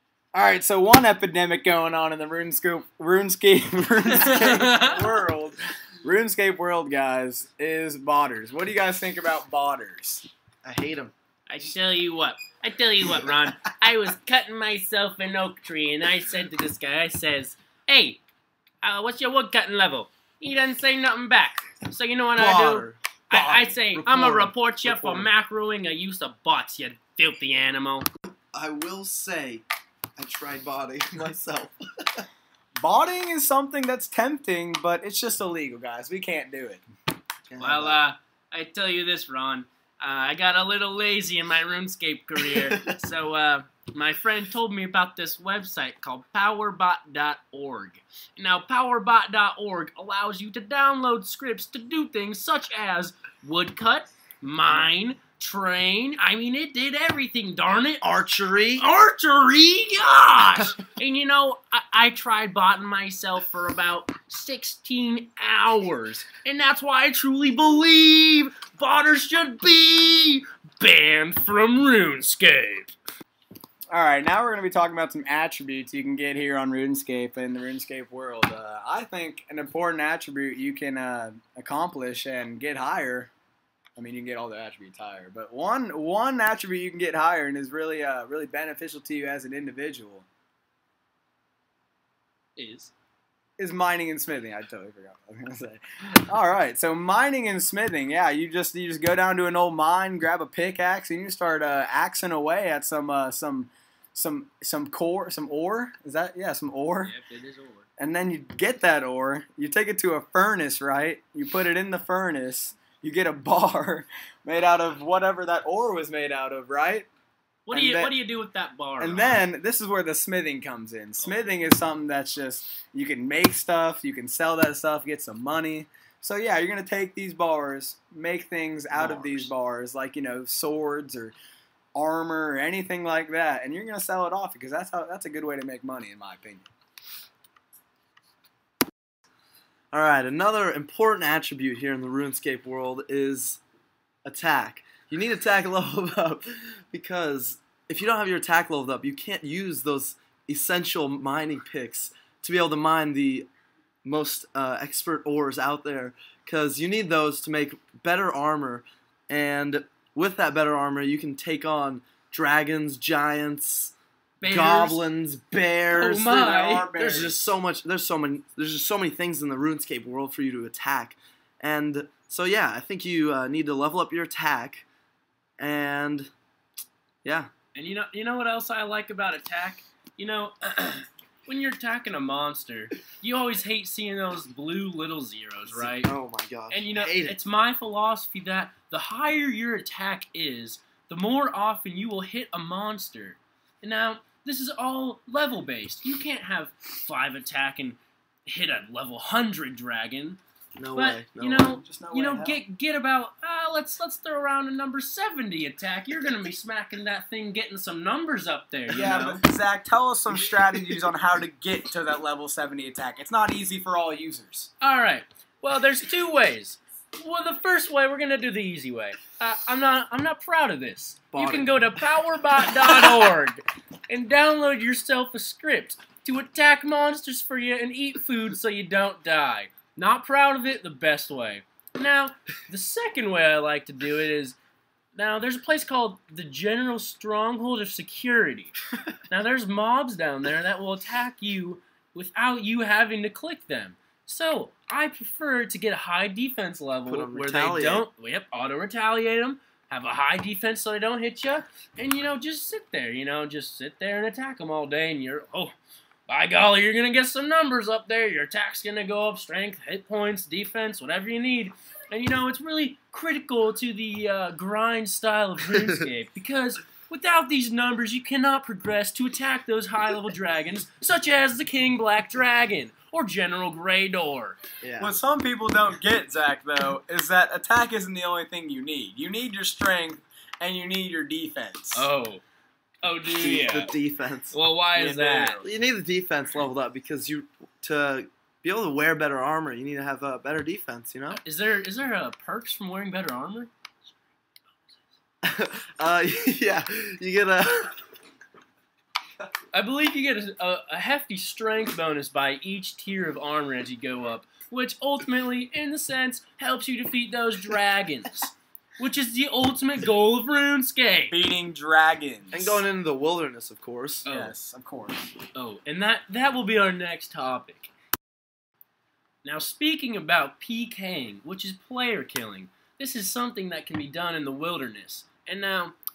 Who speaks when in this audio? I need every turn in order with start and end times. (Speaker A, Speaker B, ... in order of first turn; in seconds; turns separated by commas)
Speaker A: 0.3-10.3, Speaker B: 4.1-5.0, Speaker C: 10.6-11.1, Speaker B: 11.5-18.2, Speaker B: 18.8-28.1, Speaker C: 22.4-25.3, Speaker C: 28.5-29.6, Speaker C: 30.1-32.3, Speaker A: 32.8-36.8, Speaker C: 37.5-38.0, Speaker B: 37.6-58.0, Speaker C: 42.6-42.9, Speaker C: 58.0-58.8, Speaker B: 58.8-72.9, Speaker A: 73.9-83.3, Speaker A: 84.0-90.3, Speaker B: 92.5-92.9, Speaker A: 93.6-107.1, Speaker B: 107.0-107.9, Speaker A: 108.0-117.1, Speaker B: 117.7-119.4, Speaker A: 117.7-118.1, Speaker A: 119.0-131.3, Speaker C: 128.9-129.5, Speaker A: 131.9-136.7, Speaker C: 139.9-143.6, Speaker C: 144.2-153.5, Speaker C: 154.0-163.9, Speaker B: 164.4-165.0, Speaker C: 164.5-166.3, Speaker B: 165.9-167.0, Speaker A: 166.3-167.3, Speaker C: 167.0-174.8, Speaker C: 175.6-176.3, Speaker C: 177.2-177.5, Speaker B: 177.7-186.1, Speaker C: 185.7-187.4, Speaker B: 186.7-200.4, Speaker C: 200.8-201.7, Speaker B: 200.9-209.4, Speaker A: 201.7-202.6, Speaker C: 208.9-209.3, Speaker A: 208.9-214.7, Speaker B: 214.8-234.6, Speaker C: 221.3-221.9, Speaker B: 235.1-238.7, Speaker B: 239.3-255.8, Speaker C: 247.1-248.1, Speaker B: 256.3-274.6, Speaker C: 274.8-275.1, Speaker A: 275.0-282.1, Speaker B: 281.9-282.4, Speaker B: 283.0-284.0, Speaker C: 283.3-284.6, Speaker B: 284.5-285.6, Speaker A: 284.9-285.6, Speaker C: 285.6-291.4, Speaker B: 291.4-293.7, Speaker C: 295.4-298.0, Speaker B: 299.7-311.4, Speaker A: 311.3-312.8, Speaker C: 312.5-314.3, Speaker B: 314.2-314.5, Speaker A: 314.3-315.3, Speaker B: 315.5-317.9, Speaker B: 319.4-325.9